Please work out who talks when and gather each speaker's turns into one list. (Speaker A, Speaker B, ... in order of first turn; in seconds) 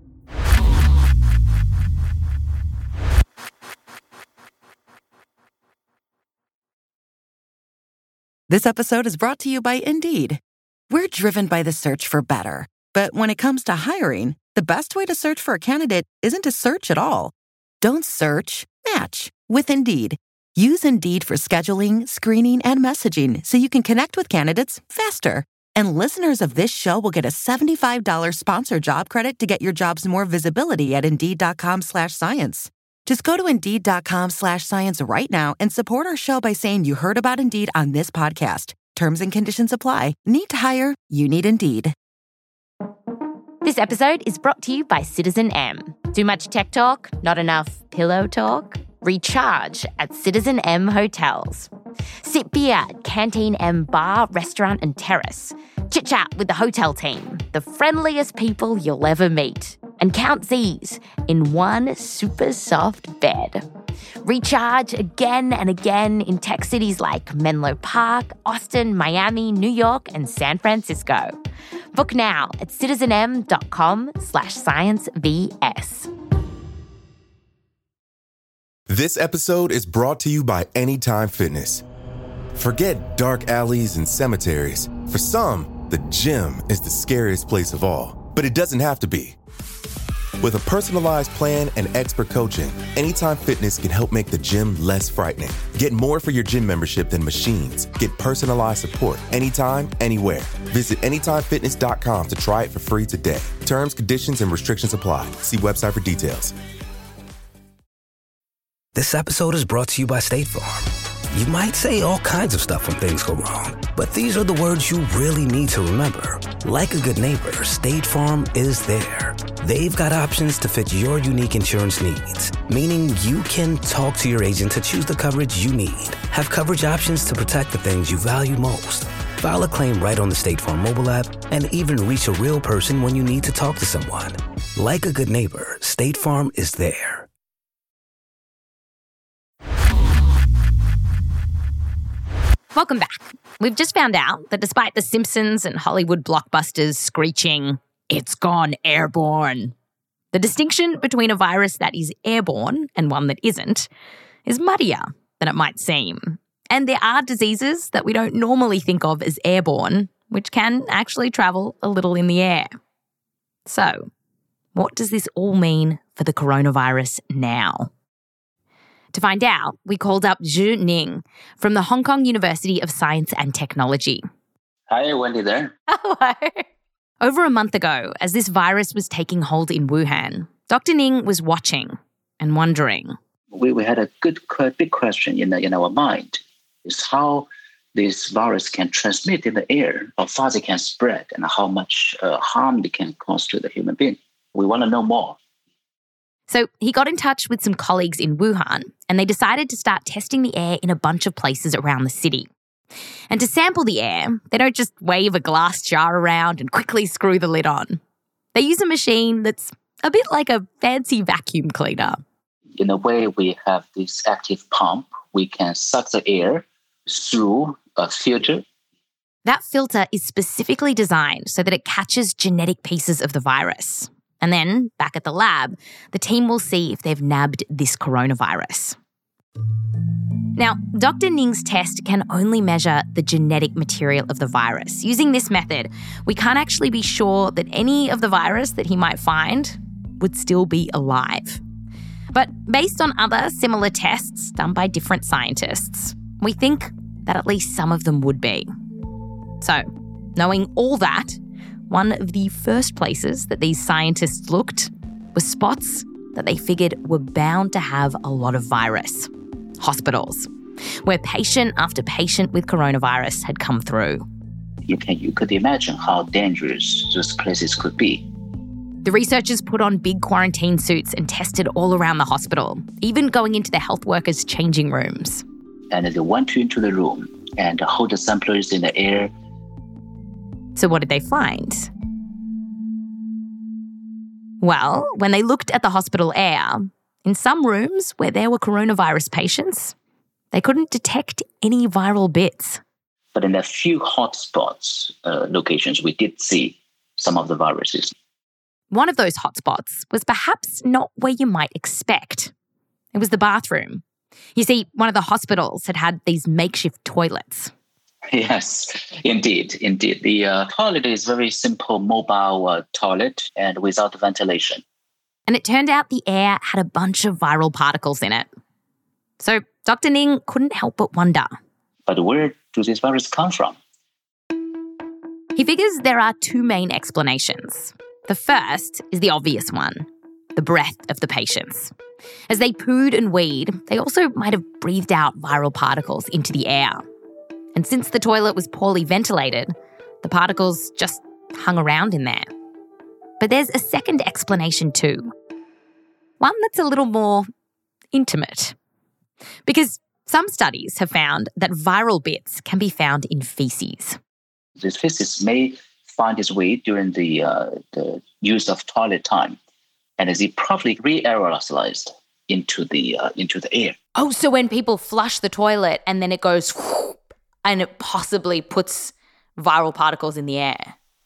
Speaker A: 8.5-42.0
Speaker B: 43.6-51.7, 52.2-63.6, 64.3-71.2, 72.0-76.0, 142.7-149.8, 150.3-153.9, 154.5-162.7, 163.7-164.1, 164.7-167.9, 169.1-174.2, 175.9-176.6, 177.2-183.2, 196.5-202.5, 203.3-208.0, 208.5-212.2, 219.4-229.0, 230.6-241.6, 242.3-248.7, 249.6-251.4, 251.9-259.3, 259.8-260.5, 261.0-264.3, 269.0-275.4, 280.8-281.9, 284.6-289.9, 290.5-292.8, 298.9-302.5, 303.1-304.0, 304.6-307.7, 315.5-318.5, 319.4-321.5, 325.6-331.9, 332.5-337.0, 337.8-342.5, 343.4-345.3, 346.4-347.5, 348.1-348.8, 349.7-354.2, 364.2-370.9
Speaker C: 78.9-81.8, 82.5-89.4, 90.4-106.5
Speaker D: 108.9-137.3
Speaker E: 174.9-175.8, 183.5-195.4, 212.8-218.6, 264.9-268.3, 275.9-279.3, 293.3-298.1, 308.3-314.8, 322.1-323.8, 354.8-359.6, 360.2-364.0